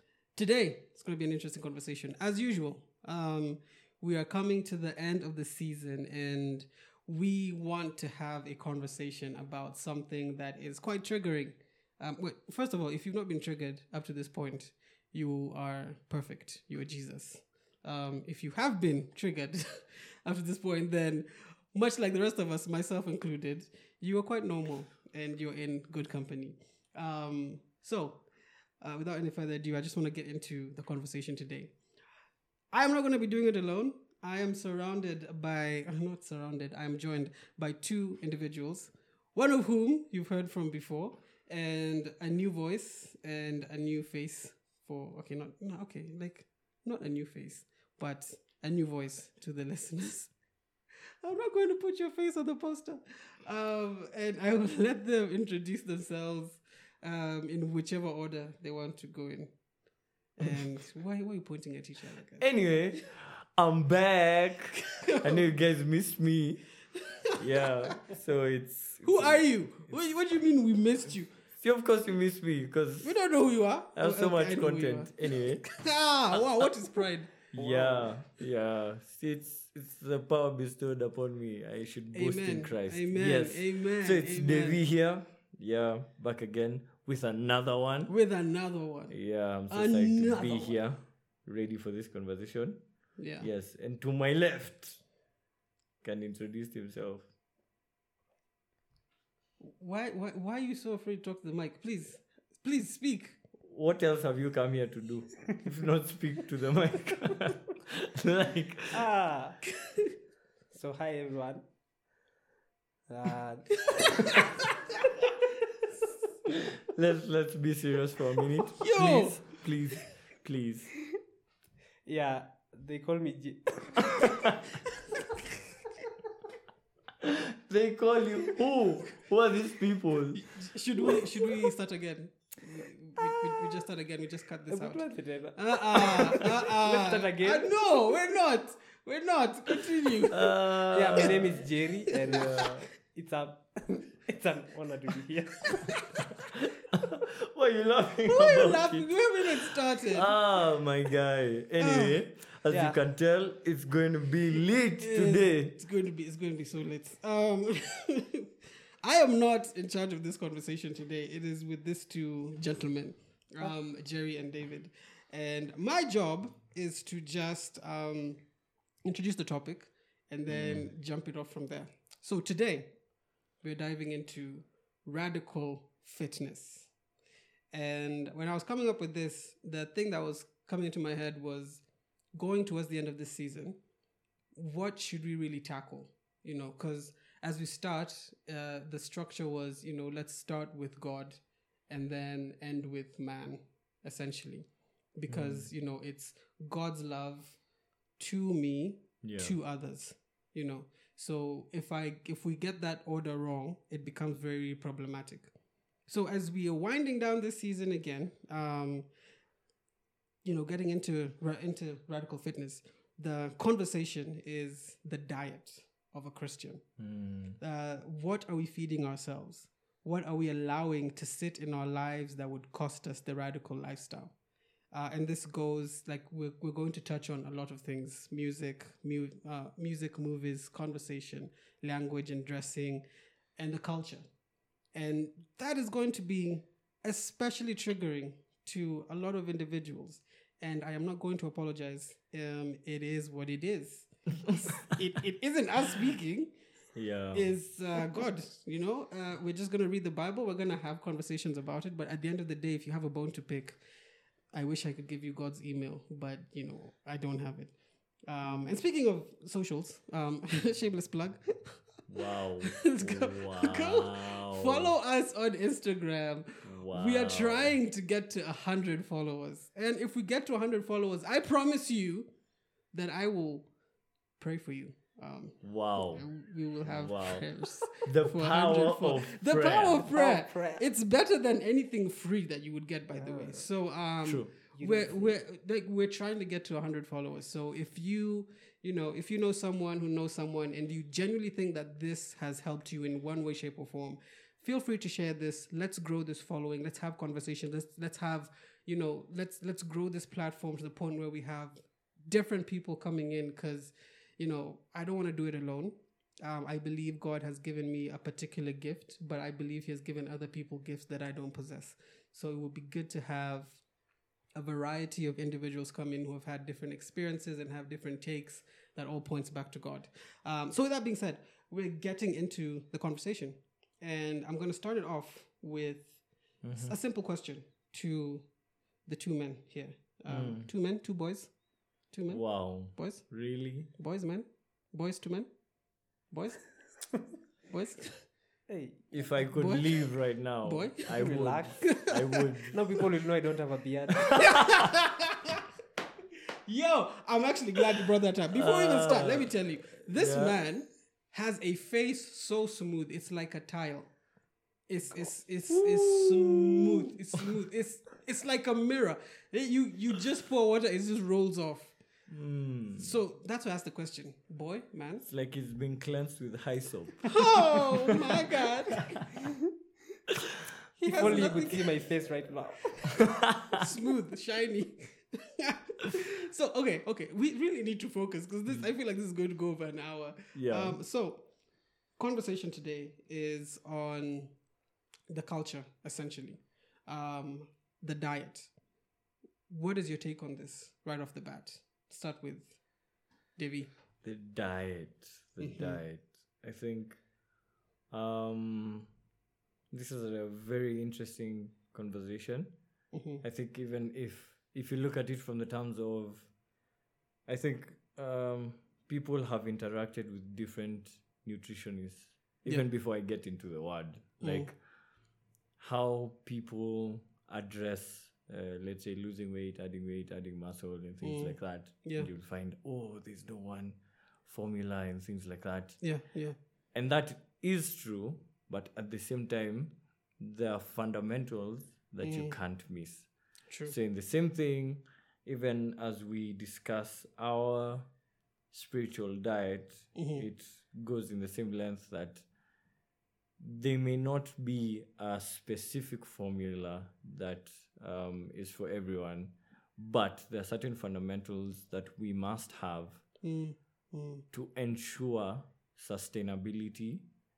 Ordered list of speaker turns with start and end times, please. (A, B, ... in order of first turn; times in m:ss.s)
0:00.3-0:28.2 A
0:28.8-0:31.8 A
0:32.7-0:50.3 A
0:51.2-0:59.5 A
1:00.4-1:02.5 A
1:02.4-1:06.7 B
1:05.0-1:05.4 A
1:07.4-1:10.0 B
1:09.0-1:11.3 A
1:11.6-1:13.2 B
1:13.0-1:18.1 A
1:14.0-1:15.7 B
1:17.5-1:28.2 B
1:22.1-1:24.8 A
1:28.1-1:30.8 A
1:29.1-1:32.8 B
1:33.2-1:33.5 A
1:33.4-1:35.0 B
1:36.0-1:37.3 B
1:39.6-1:43.4 A
1:43.6-1:49.1 B
1:48.9-1:49.6 C
1:50.7-1:51.6 C
1:53.1-1:54.4 C
1:53.9-1:54.6 A
1:56.8-2:01.0 B
1:58.8-1:59.6 A
2:02.1-2:04.3 C
2:07.2-2:10.4 B
2:10.4-2:20.4 A
2:14.7-2:18.1 C
2:20.3-2:21.6 B
2:20.9-2:26.2 C
2:22.2-2:22.8 B
2:25.8-2:26.2 A
2:26.9-2:35.8 B
2:28.2-2:30.4 A
2:31.8-2:32.2 A
2:32.7-2:33.0 C
2:35.0-2:38.5 A
2:39.0-2:48.4 A
2:49.0-2:53.0 A
2:50.5-2:50.9 B
2:53.6-2:56.9 A
2:57.7-3:03.8 A
3:04.6-3:17.6 A
3:15.3-3:15.7 B
3:18.2-3:25.5 A
3:19.2-3:19.6 B
3:26.1-3:29.1 A
3:30.4-3:36.8 A
3:37.0-3:37.6 B
3:37.6-3:44.3 A
3:44.9-3:53.0 A
3:53.6-3:54.2 A
3:54.9-4:06.5 A
4:07.0-4:07.6 B
4:07.3-4:13.8 A
4:14.5-4:17.8 A
4:18.3-4:21.8 A
4:22.1-4:24.9 B
4:22.8-4:32.3 A
4:26.6-4:27.8 B
4:32.9-4:33.7 A
4:34.4-5:13.8 A
4:35.6-4:36.3 B
4:36.8-4:40.0 B
4:40.1-4:40.8 C
4:43.1-4:43.7 C
4:44.2-4:44.5 B
4:44.7-4:45.4 C
5:14.6-5:28.5 A
5:26.6-5:27.0 B
5:29.0-5:31.5 A
5:30.3-5:30.7 B
5:32.1-5:35.5 A
5:32.3-5:33.9 B
5:36.3-5:36.7 A
5:37.7-5:38.2 A
5:38.7-5:39.1 C
5:39.1-5:43.0 B
5:39.5-5:40.0 A
5:40.6-5:41.1 A
5:41.1-5:41.9 C
5:41.8-5:42.4 A
5:42.7-5:44.4 C
5:44.3-5:44.7 B
5:44.4-5:45.6 A
5:46.6-5:54.1 A
5:48.5-5:50.6 B
5:54.9-6:02.0 A
5:55.7-5:57.4 B
6:02.3-6:03.2 B
6:02.9-6:05.3 A
6:05.2-6:07.8 B
6:07.2-6:09.1 A
6:11.0-6:12.0 A
6:11.0-6:13.1 C
6:13.2-6:13.8 B
6:13.7-6:21.5 A
6:20.5-6:21.0 B
6:22.2-6:24.6 A
6:25.3-6:28.7 A
6:29.7-6:32.8 A
6:33.6-6:33.9 A
6:34.2-6:37.2 B
6:35.6-6:36.0 A
6:38.1-6:39.1 B
6:39.9-6:42.7 B
6:43.1-6:43.4 A
6:43.4-6:46.5 B
6:47.4-6:54.8 B
6:54.4-6:54.7 A
6:55.8-7:06.2 B
7:01.2-7:02.3 A
7:06.0-7:06.6 A
7:06.9-7:13.3 B
7:12.2-7:12.6 A
7:13.8-7:18.1 B
7:18.7-7:22.4 B
7:20.1-7:20.4 A
7:23.6-7:33.2 B
7:33.4-7:34.4 A
7:34.5-7:37.2 B